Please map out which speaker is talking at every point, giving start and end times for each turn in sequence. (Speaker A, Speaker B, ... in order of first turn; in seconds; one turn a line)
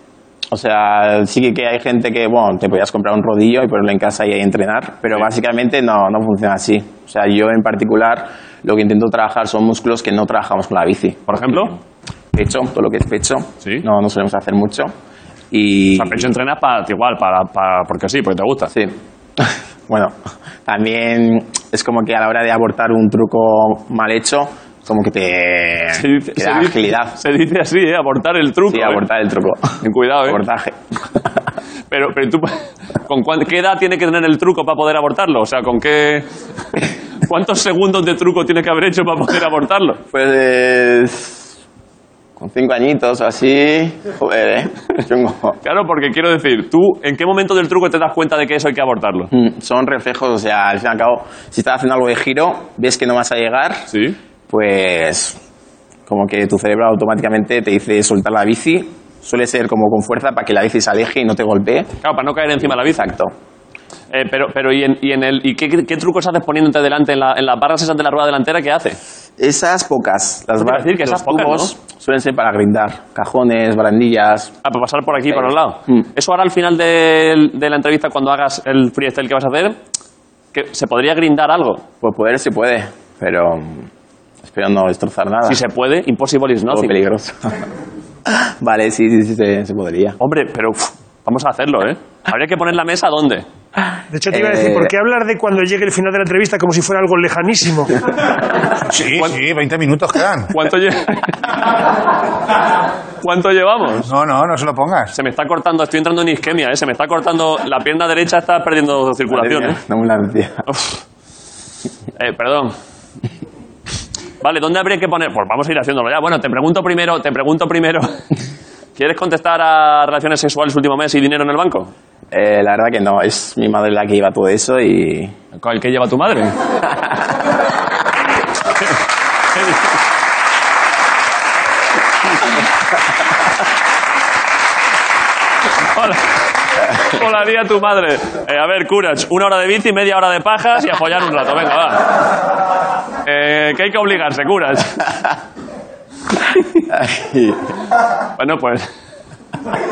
Speaker A: 0.5-11.8
Speaker B: 11.3-11.7
Speaker A: 12.3-14.9
Speaker A: 15.5-16.3
Speaker B: 15.9-18.7
Speaker A: 18.7-27.2
Speaker B: 25.9-29.0
Speaker A: 28.7-30.8
Speaker B: 29.8-30.4
Speaker B: 31.9-40.0
Speaker A: 40.1-41.5
Speaker A: 42.4-45.6
Speaker B: 45.6-49.3
Speaker A: 49.3-53.9
Speaker B: 53.9-54.2
Speaker A: 54.5-55.4
Speaker A: 56.1-61.9
Speaker B: 62.0-63.1
Speaker A: 62.6-63.3
Speaker B: 64.1-69.0
Speaker A: 69.4-74.5
Speaker B: 70.6-71.7
Speaker B: 74.6-79.8
Speaker A: 75.3-76.0
Speaker B: 80.5-81.8
Speaker A: 82.0-83.9
Speaker A: 84.4-85.6
Speaker B: 85.4-87.0
Speaker A: 86.7-87.6
Speaker A: 88.2-90.2
Speaker B: 90.2-93.4
Speaker C: 94.1-97.9
Speaker A: 94.3-94.9
Speaker D: 98.9-100.5
Speaker B: 100.5-101.6
Speaker B: 103.2-104.1
Speaker D: 104.1-105.1
Speaker B: 105.1-109.8
Speaker A: 109.3-110.7
Speaker B: 110.7-111.0
Speaker B: 112.2-112.7
Speaker B: 114.4-118.2
Speaker B: 119.0-121.9
Speaker A: 122.3-125.3
Speaker B: 125.5-126.5
Speaker B: 129.5-129.9
Speaker B: 135.9-142.2
Speaker B: 143.2-145.2
Speaker A: 146.7-147.7
Speaker B: 148.4-148.9